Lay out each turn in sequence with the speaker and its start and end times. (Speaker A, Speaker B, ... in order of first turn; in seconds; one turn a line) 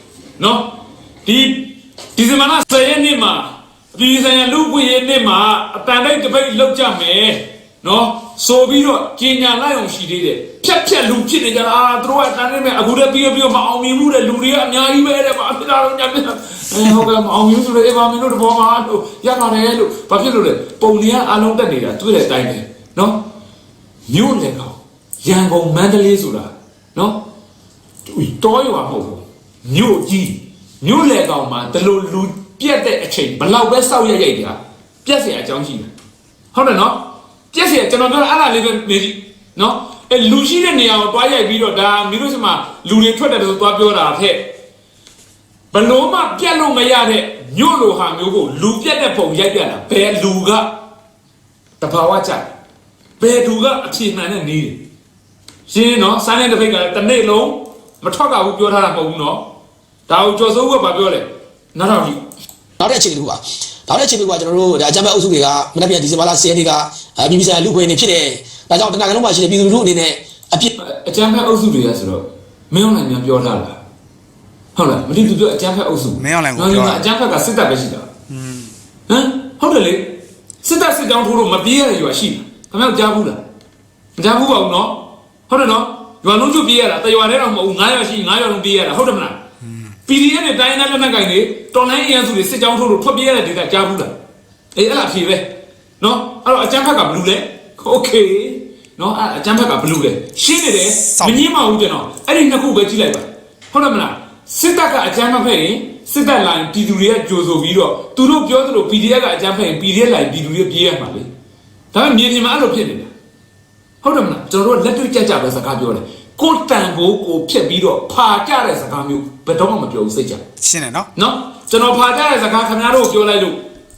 Speaker A: 0.4-23.3
Speaker A: 24.1-27.2
Speaker A: 28.1-35.9
Speaker A: 36.5-44.5
Speaker A: 45.7-50.7
Speaker A: 51.8-52.5
Speaker A: 53.2-54.8
Speaker A: 55.7-59.5
Speaker A: 60.1-62.2
Speaker B: 62.8-70.7
Speaker A: 70.8-73.8
Speaker A: 74.8-78.1
Speaker C: 76.2-77.0
Speaker C: 78.3-78.7
Speaker A: 79.1-83.4
Speaker A: 84.2-89.4
Speaker C: 89.7-90.0
Speaker A: 90.1-94.1
Speaker A: 94.8-111.3
Speaker C: 101.1-101.5
Speaker A: 111.9-113.1
Speaker A: 114.0-120.4
Speaker C: 120.6-121.1
Speaker A: 121.2-123.6